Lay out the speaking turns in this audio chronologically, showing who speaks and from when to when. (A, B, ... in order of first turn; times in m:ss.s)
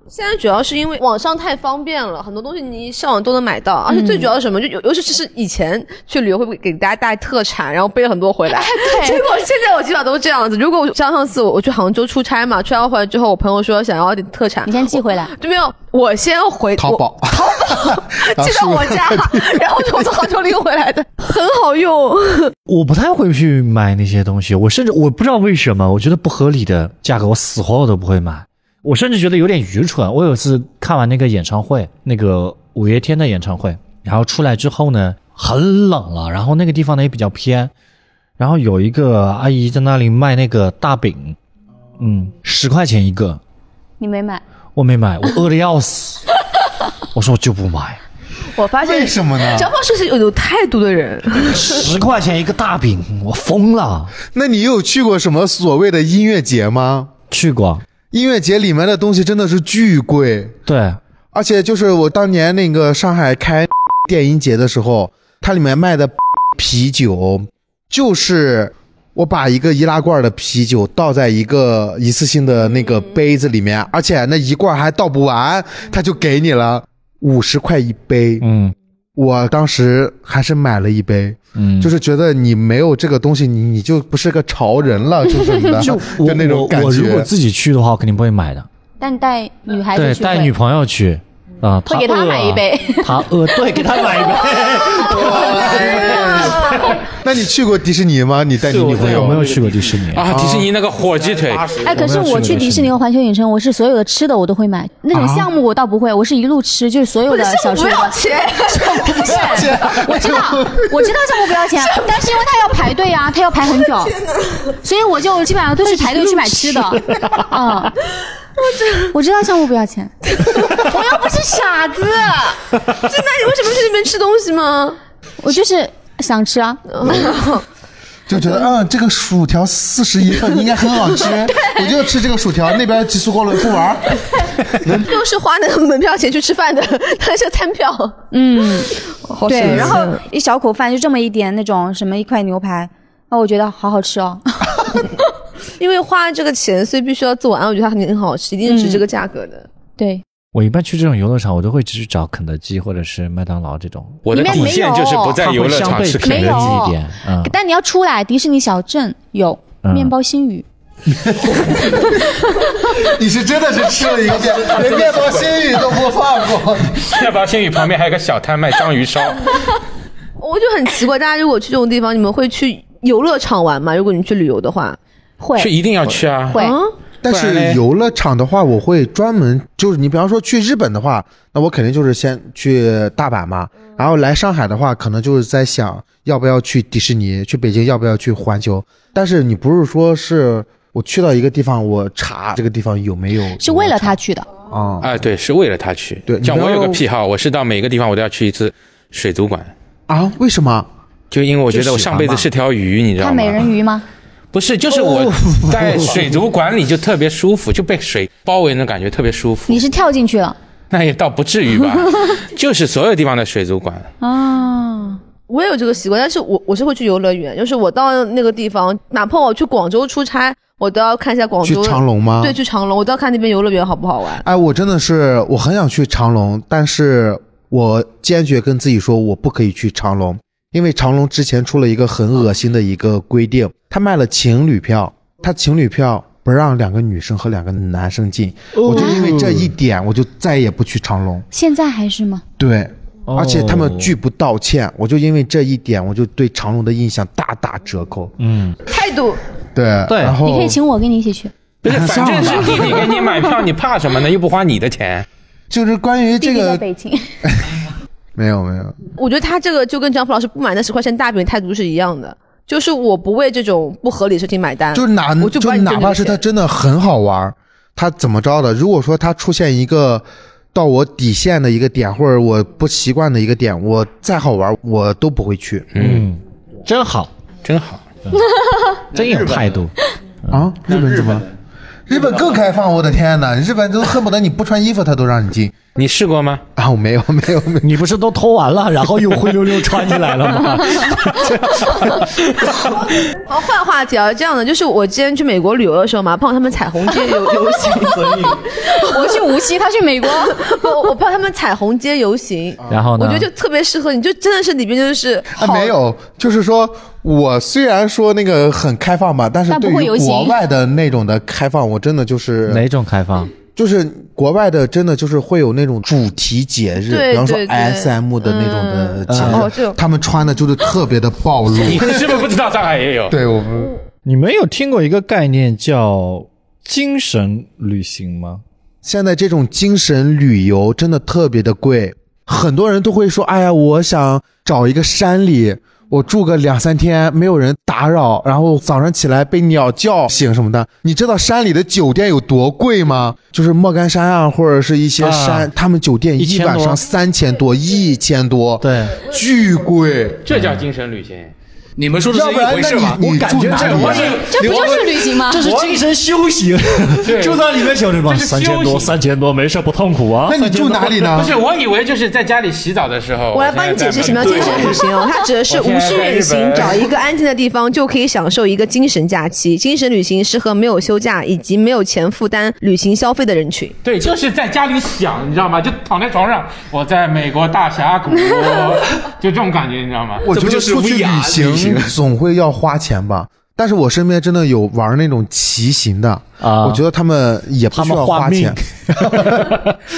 0:00.1-0:22.5 A
0:03.9-0:04.3 B
0:08.5-0:09.3 B
0:14.6-0:15.3 B
0:16.8-0:19.6 C
0:22.7-0:37.7 D
0:38.4-0:41.4 D
0:42.0-0:43.4 D
0:44.0-0:44.4 B
0:44.7-0:46.2 D
0:47.1-0:48.0 D
0:48.5-0:51.9 A
0:48.8-0:49.7 C
0:51.5-0:54.1 D
0:54.3-0:57.1 C
0:57.3-0:57.8 D
0:58.1-1:00.6 C
1:00.6-1:01.0 D
1:01.3-1:18.4 C
1:18.4-1:18.7 D
1:19.2-1:27.3 C
1:21.6-1:21.9 D
1:25.8-1:28.7 D
1:29.0-1:30.5 B
1:29.9-1:37.0 D
1:31.8-1:34.9 B
1:35.0-1:39.4 C
1:38.7-1:40.1 E
1:39.0-1:40.2 D
1:40.1-1:41.8 F
1:40.3-1:40.7 C
1:41.0-1:42.1 E
1:41.8-1:48.2 B
1:41.9-1:42.9 D
1:45.1-1:45.5 C
1:47.3-1:49.7 A
1:48.9-1:54.2 B
1:49.1-1:51.1 C
1:51.8-1:52.6 A
1:54.1-1:54.7 A
1:54.8-1:57.9 B
1:55.8-1:57.0 A
1:57.1-1:57.4 D
1:58.6-1:59.1 A
1:59.1-2:02.6 B
2:00.4-2:01.3 A
2:02.9-2:05.0 A
2:05.4-2:06.8 B
2:06.9-2:07.6 A
2:08.3-2:14.2 C
2:11.2-2:11.9 A
2:14.8-2:15.1 C
2:14.8-2:18.2 A
2:18.3-2:18.9 B
2:19.1-2:20.2 A
2:19.4-2:24.4 B
2:19.6-2:20.0 C
2:25.8-2:29.7 A
2:28.6-2:29.0 B
2:30.0-2:30.2 B
2:30.5-2:34.8 D
2:34.2-2:36.8 F
2:34.3-2:35.4 B
2:35.4-2:37.5 D
2:36.2-2:40.6 B
2:39.8-2:40.1 D
2:41.1-2:42.2 C
2:42.1-2:42.5 B
2:42.9-2:47.1 C
2:44.6-2:45.5 E
2:47.0-2:49.6 F
2:50.4-2:55.0 A
2:55.4-2:55.7 B
2:55.6-2:56.6 F
2:56.5-2:56.8 B
2:56.5-2:56.9 A
2:57.2-3:14.2 C
2:57.3-2:57.8 F
3:13.6-3:14.5 B
3:14.7-3:15.2 C
3:15.0-3:19.7 F
3:16.3-3:17.0 C
3:20.1-3:20.9 C
3:21.3-3:23.7 F
3:21.7-3:22.5 C
3:23.2-3:24.0 B
3:24.5-3:29.8 F
3:24.9-3:26.4 D
3:29.7-3:30.6 B
3:30.9-3:34.1 F
3:34.2-3:35.2 B
3:35.5-3:44.4 A
3:41.6-3:42.6 C
3:44.4-4:01.4 C
3:58.7-3:59.7 D
3:58.9-3:59.3 B
4:01.5-4:02.4 B
4:02.6-4:08.3 C
4:03.3-4:04.1 D
4:08.4-4:08.8 D
4:08.9-4:09.4 A
4:09.7-4:10.8 C
4:10.1-4:10.4 D
4:10.4-4:11.5 B
4:11.8-4:15.3 F
4:11.8-4:13.1 C
4:12.9-4:13.5 B
4:15.7-4:16.8 C
4:16.4-4:17.3 B
4:17.4-4:19.0 C
4:19.2-4:26.4 A
4:24.9-4:35.9 C
4:35.9-4:36.3 F
4:36.0-4:37.3 D
4:37.6-4:38.0 F
4:38.5-4:39.0 B
4:39.1-4:39.8 E
4:39.1-4:39.9 D
4:40.5-4:41.4 C
4:40.9-4:41.5 E
4:42.1-4:45.8 C
4:42.1-4:42.5 E
4:46.0-4:46.6 F
4:46.8-4:47.9 C
4:47.8-4:52.3 D
4:52.8-4:59.5 A
4:59.0-5:00.7 B
5:00.3-5:05.9 A
5:02.9-5:03.5 D
5:05.5-5:12.8 C
5:09.7-5:10.6 B
5:12.7-5:13.5 D
5:13.7-5:22.4 C
5:17.1-5:20.0 A
5:19.3-5:19.6 D
5:21.8-5:23.4 F
5:23.3-5:23.9 C
5:24.2-5:28.6 D
5:29.0-5:50.4 C
5:45.2-5:45.7 D
5:46.4-5:47.0 D
5:48.8-5:49.2 D
5:50.4-5:51.5 F
5:50.5-5:50.8 D
5:52.0-5:53.2 E
5:52.3-5:54.4 C
5:53.2-5:54.9 D
5:53.8-5:54.8 F
5:53.9-5:55.2 E
5:54.4-5:55.7 B
5:55.4-6:01.1 D
5:57.2-5:57.7 F
5:58.2-5:59.1 F
6:00.4-6:01.6 C
6:01.1-6:05.1 F
6:03.5-6:13.9 A
6:04.4-6:04.8 E
6:05.7-6:07.1 F
6:14.0-6:20.4 F
6:20.4-6:29.8 C
6:20.5-6:22.1 E
6:26.6-6:27.0 D
6:27.9-6:30.0 D